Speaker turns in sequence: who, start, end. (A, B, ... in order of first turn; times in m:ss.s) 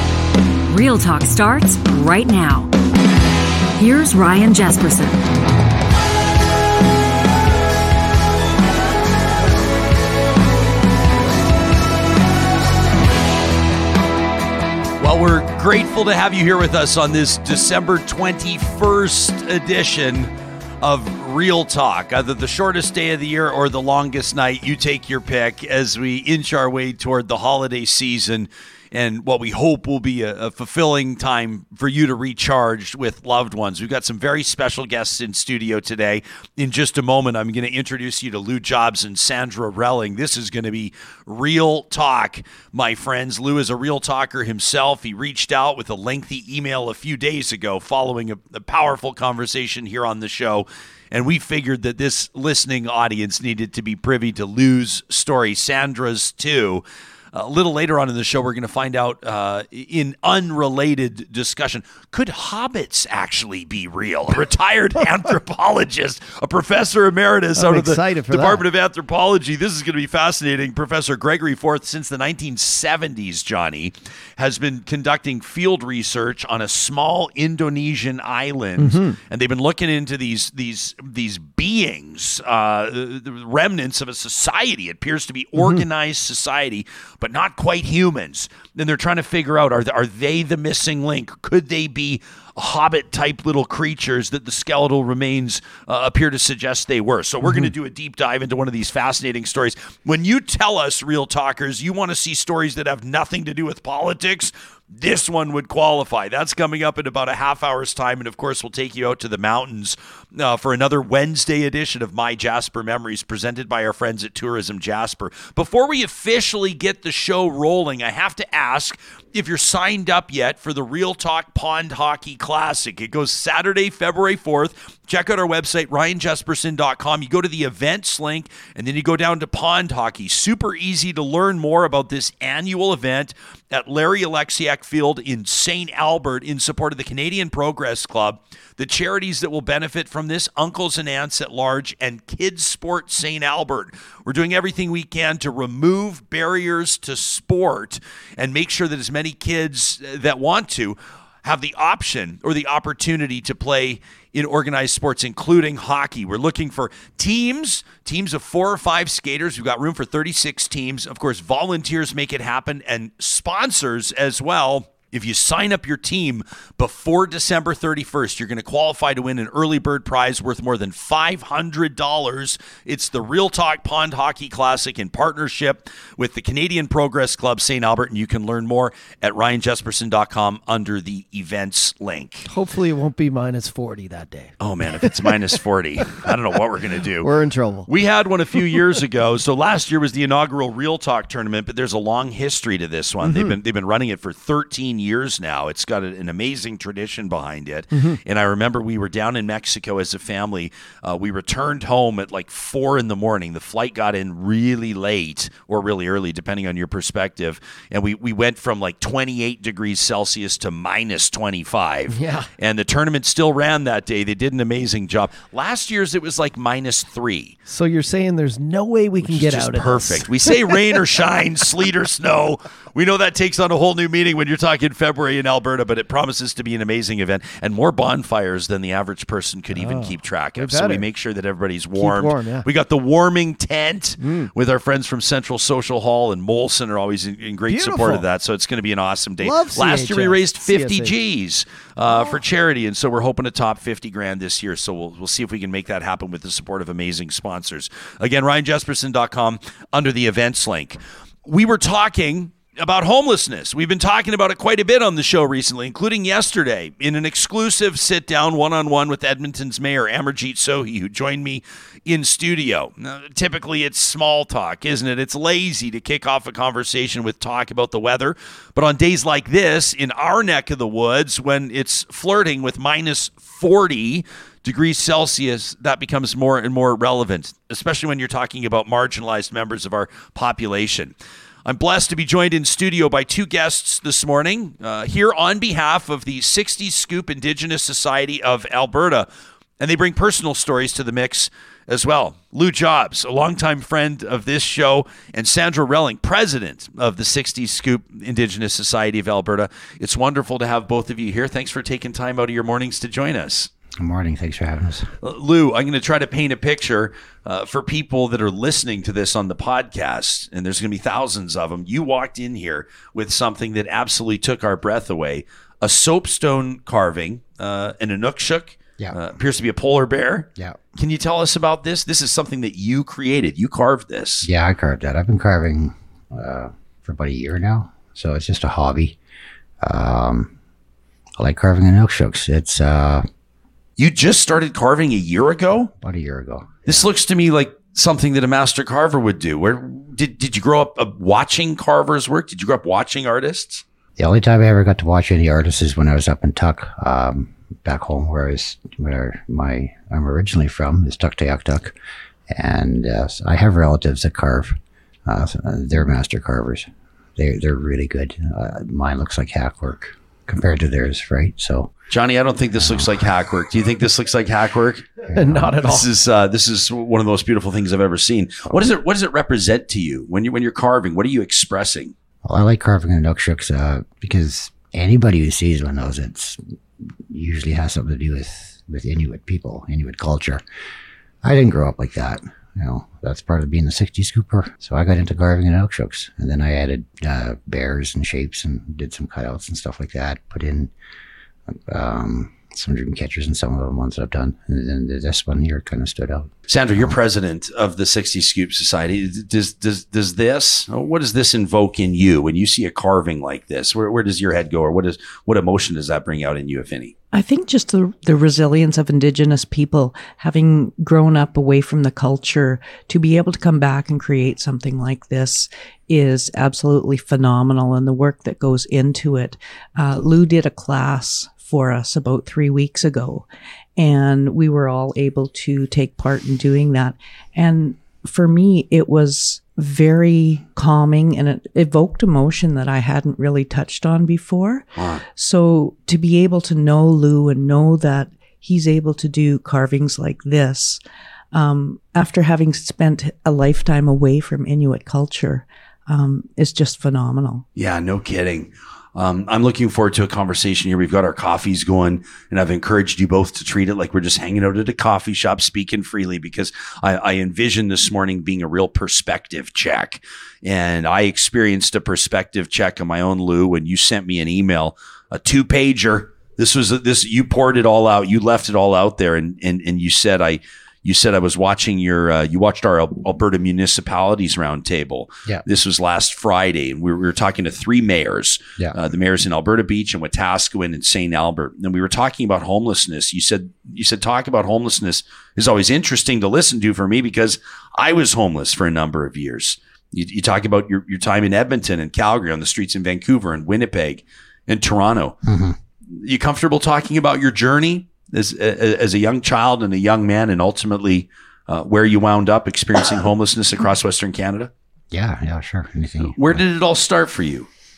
0:00.7-0:02.7 A
0:03.8-0:05.2 A
0:15.0-3:02.5 B
1:07.6-1:08.6 C
1:18.8-1:19.2 C
1:25.6-1:25.8 C
1:37.4-1:37.7 C
3:02.5-3:05.3 C
3:04.6-3:07.3 B
3:07.2-3:07.9 C
3:07.9-3:37.6 B
3:13.2-3:13.6 C
3:32.1-3:32.5 C
3:37.7-3:40.9 C
3:39.2-4:41.1 B
3:49.7-3:51.1 C
3:52.0-3:52.7 C
3:54.2-3:54.5 C
3:57.7-3:58.2 C
3:59.4-4:01.2 C
4:41.6-4:49.3 B
4:49.8-5:03.7 B
5:04.0-5:05.1 D
5:05.2-5:24.5 B
5:24.4-5:29.2 D
5:29.8-5:30.5 D
5:31.4-5:33.2 D
5:34.0-5:35.9 B
5:36.0-5:37.1 D
5:36.9-5:43.8 B
5:44.2-5:51.9 D
5:52.5-6:01.9 D
6:02.1-6:12.1 B
6:02.8-6:03.3 D
6:05.3-6:05.8 D
6:05.4-6:06.1 C
6:12.4-6:16.6 D
6:17.3-6:20.6 D
6:21.4-6:30.9 D
6:31.7-6:37.2 D
6:36.7-6:47.1 B
6:47.3-7:03.4 E
7:04.0-7:14.8 E
7:15.0-7:15.2 B
7:15.4-7:21.0 E
7:21.5-7:27.6 E
7:27.8-8:15.4 B
8:15.4-8:15.8 D
8:16.1-8:24.7 B
8:25.1-8:26.6 D
8:26.2-8:27.7 B